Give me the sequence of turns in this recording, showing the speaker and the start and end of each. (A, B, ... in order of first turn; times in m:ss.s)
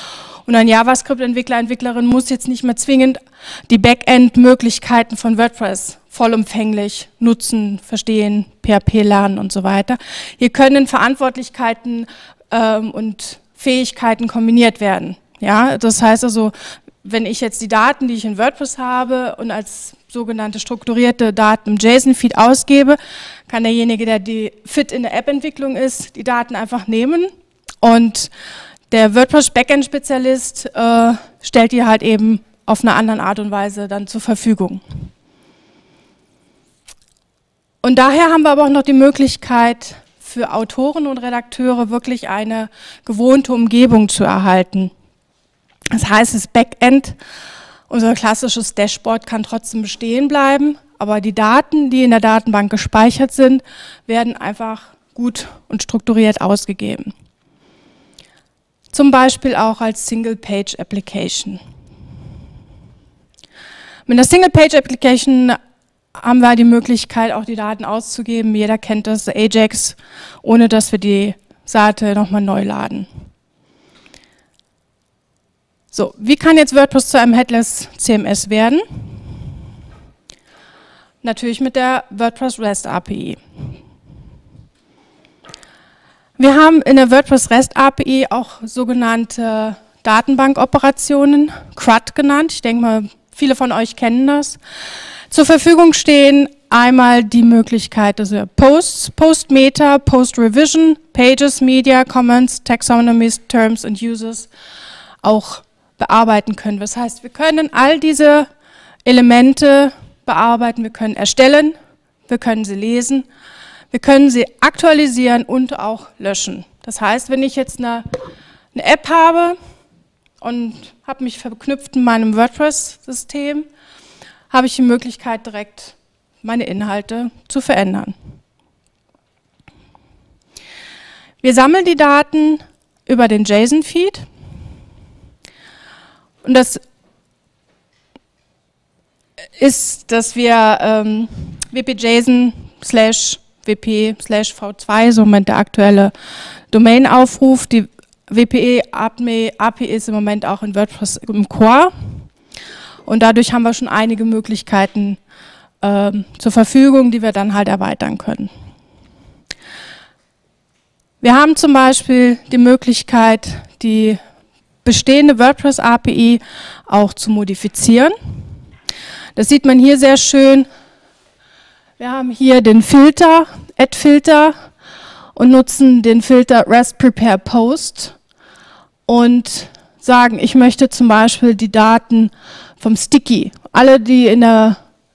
0:00.5-0:28.3 A
0:28.9-0:34.8 A
0:37.8-0:44.9 A
0:45.9-0:47.2 A
0:47.9-0:57.1 A
0:58.9-1:01.6 A
1:04.1-1:05.6 A
1:06.2-1:13.1 A
1:15.9-1:18.8 A
1:21.2-1:23.4 A
1:26.4-1:34.6 A
1:35.3-1:44.5 A
1:45.2-1:48.5 A
1:49.0-1:51.8 A
1:52.3-1:53.3 A
1:53.9-1:58.1 A
1:58.7-1:59.6 A
2:00.4-2:03.7 A
2:04.5-2:08.1 A
2:11.4-2:14.3 A
2:16.4-2:16.8 A
2:19.6-2:26.1 A
2:26.7-2:31.9 A
2:33.1-2:35.2 A
2:35.8-2:38.5 A
2:41.2-2:44.2 A
2:44.8-2:48.2 A
2:49.4-2:50.7 A
2:52.0-2:54.6 A
2:55.4-2:58.2 A
2:59.1-3:04.8 A